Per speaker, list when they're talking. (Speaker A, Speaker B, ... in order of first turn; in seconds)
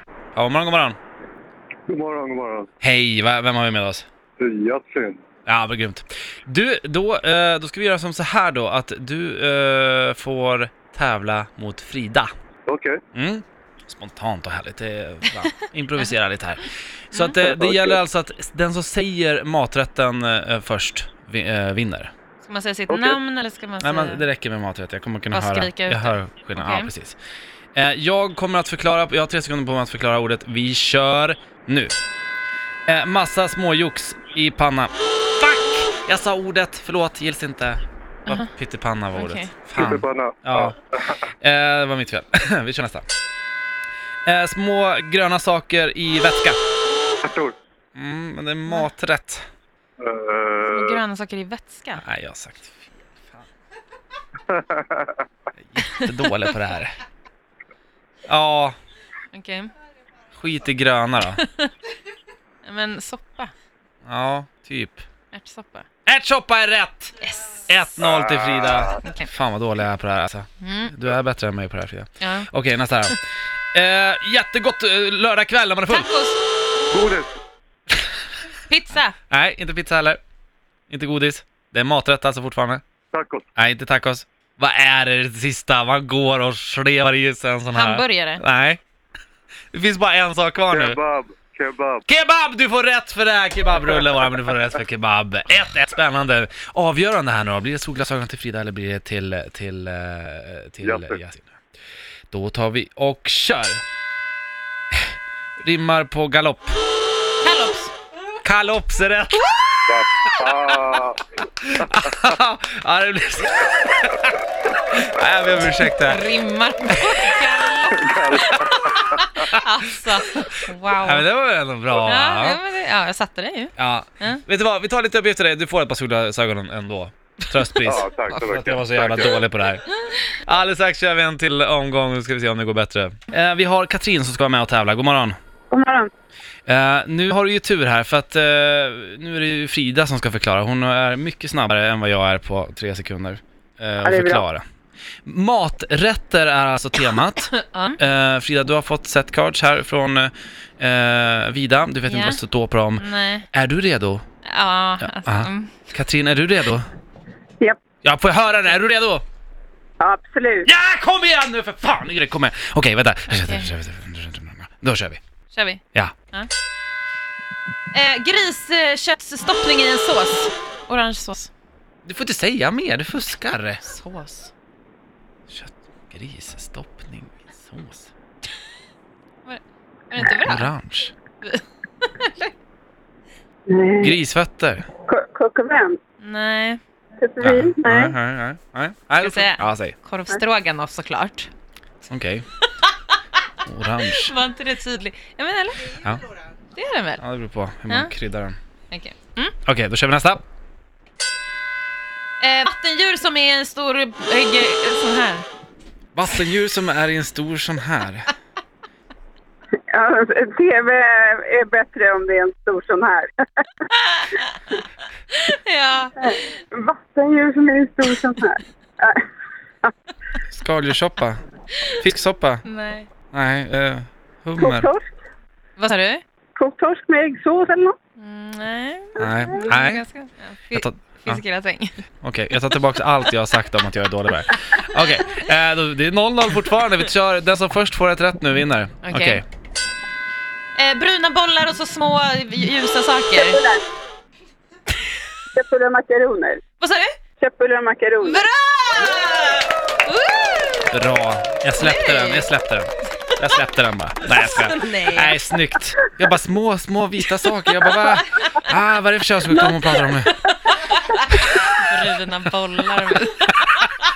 Speaker A: 0.3-1.0, 2.8-4.0, 5.5-12.3, 13.1-22.1, 23.8-27.2, 27.7-31.9, 32.9-43.0, 44.2-46.6, 47.9-49.4, 52.0-53.4, 55.6-56.9, 58.3-58.8, 60.4-61.4, 64.0-65.0, 66.0-73.2, 73.7-76.1, 79.3-80.2, 80.9-82.8, 83.6-88.8, 89.7-91.0, 92.1-101.6, 102.3-103.8, 104.9-106.8, 108.4-111.0, 111.6-116.2, 116.9-117.4, 118.7-122.6, 123.8-135.3, 136.7-144.6, 145.2-154.2, 155.0-156.9, 158.0-159.2, 160.6-165.2, 172.0-173.8, 175.5-178.1, 180.4-181.1, 184.0-184.9, 187.4-190.0, 192.1-192.4, 193.6-194.3, 195.9-196.2, 197.2-198.6, 199.6-200.4, 206.1-208.3, 220.5-222.6, 223.3-224.9, 229.2-230.0, 230.7-231.4, 232.2-239.4, 250.9-260.5
Speaker B: 1.9-2.7, 4.4-5.2, 12.7-13.0, 17.5-18.0, 22.9-23.2, 39.8-41.2, 47.2-47.5, 50.0-51.0, 54.5-55.1, 68.0-69.0, 76.9-77.3, 83.1-83.5, 90.7-92.0, 100.8-101.2, 109.9-111.3, 117.9-119.2, 127.8-129.4
Speaker C: 22.4-24.2, 25.3-26.9, 39.1-39.5, 50.6-52.0, 59.3-59.7, 61.3-61.7, 62.6-63.5, 65.3-65.8, 67.2-67.6, 69.0-69.3, 70.6-70.9, 72.2-72.5, 75.9-76.4, 78.7-79.2, 87.7-88.4, 107.4-107.9, 116.0-121.2, 122.0-124.4, 129.9-130.3, 147.5-148.0, 152.1-152.4, 153.0-153.5, 154.4-155.7, 163.3-163.7, 165.5-166.5, 167.9-171.5, 173.8-174.5, 179.4-180.7, 181.4-182.5, 186.2-186.8, 189.2-191.5, 194.1-196.0, 196.7-197.2, 198.9-199.6, 202.4-205.5, 213.9-214.8, 215.3-216.1, 222.6-223.1, 225.8-226.2, 228.2-232.0, 239.0-239.4, 240.8-243.6, 246.8-247.1, 248.2-250.8, 251.8-252.5, 254.2-255.4, 258.3-258.6, 260.9-264.0
Speaker D: 135.7-136.1, 144.0-144.4, 160.0-160.7, 183.7-184.2, 185.1-186.0, 187.2-188.1, 209.9-213.3, 216.2-219.2, 224.6-225.1, 226.6-227.9, 229.2-229.7, 243.3-243.8, 245.5-246.6, 247.4-248.4, 259.5-260.3